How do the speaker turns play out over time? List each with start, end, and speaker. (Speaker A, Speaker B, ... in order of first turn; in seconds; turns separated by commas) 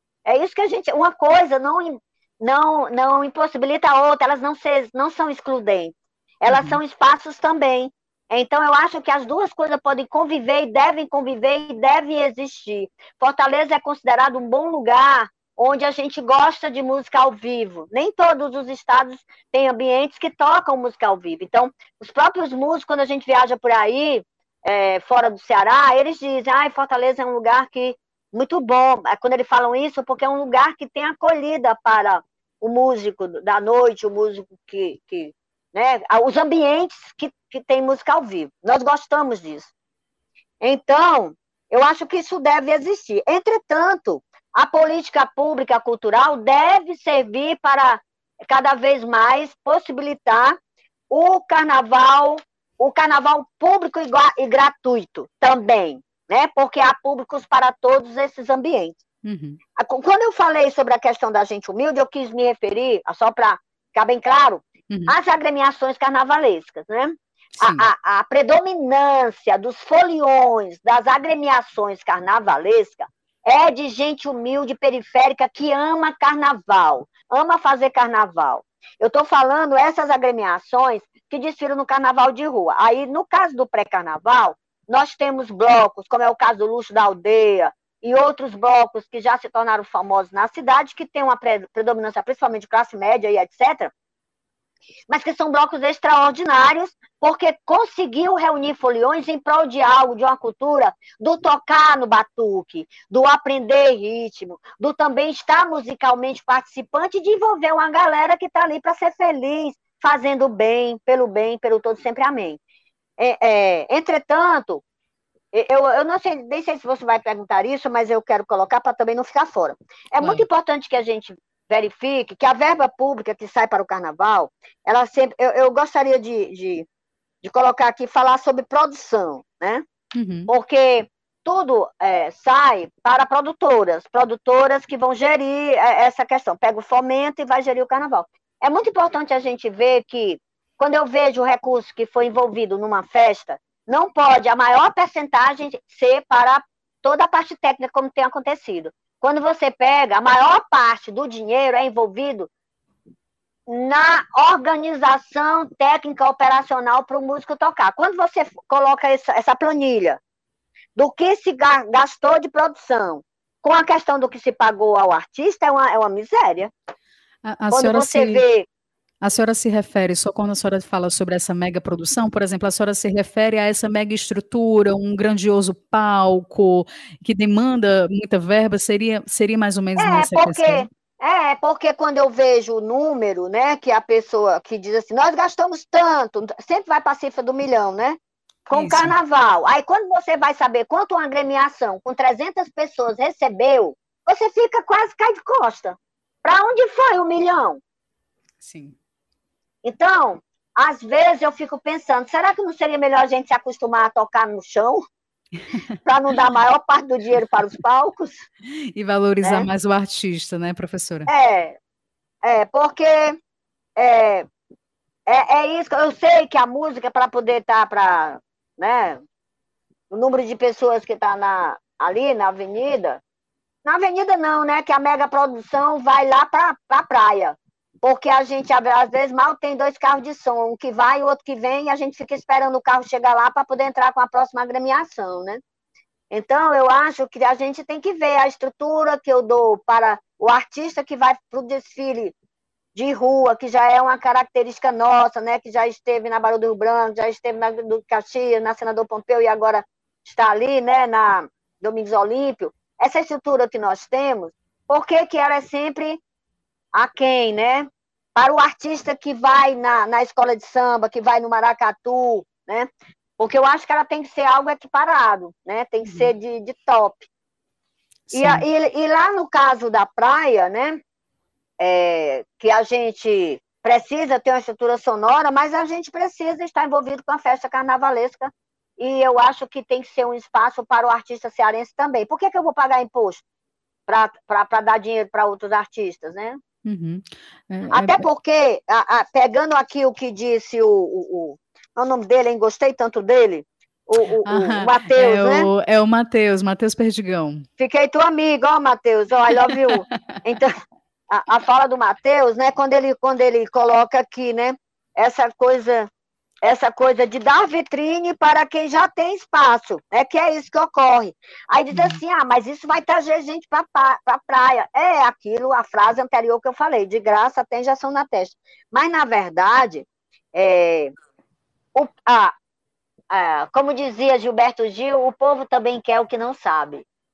Speaker A: 0.3-39.7, Speaker B: 6.5-6.8, Speaker A: 40.6-50.6, Speaker A: 51.1-59.0, Speaker B: 59.2-59.6, Speaker A: 59.8-93.9, Speaker B: 64.9-65.2, Speaker B: 67.6-67.9, Speaker A: 95.1-112.6, Speaker A: 113.2-114.8, Speaker A: 115.5-126.9, Speaker B: 120.2-120.5, Speaker A: 127.4-129.8, Speaker B: 130.2-130.5, Speaker A: 130.5-152.5, Speaker A: 153.7-160.2, Speaker A: 161.0-166.7, Speaker B: 167.4-168.4, Speaker A: 167.7-168.7, Speaker B: 169.2-180.9, Speaker A: 180.0-197.8, Speaker B: 188.7-189.1, Speaker B: 198.6-198.9, Speaker A: 199.8-205.0, Speaker A: 206.1-208.5, Speaker B: 208.9-211.3, Speaker A: 209.4-209.7, Speaker A: 211.3-211.8, Speaker A: 212.4-213.4, Speaker A: 214.0-214.5, Speaker A: 215.3-219.2, Speaker A: 220.1-223.2, Speaker A: 223.8-235.6, Speaker A: 236.3-242.3, Speaker A: 242.9-256.2, Speaker A: 256.9-262.9, Speaker A: 263.4-267.3, Speaker B: 266.0-266.3, Speaker B: 268.3-268.6, Speaker A: 268.3-271.0, Speaker A: 271.8-283.4, Speaker A: 284.1-286.6, Speaker B: 286.9-288.3, Speaker A: 287.9-295.7, Speaker B: 294.5-297.7, Speaker A: 297.8-300.8, Speaker A: 301.3-306.1, Speaker A: 306.6-321.1, Speaker B: 311.9-312.2, Speaker A: 321.9-322.5, Speaker A: 323.3-327.1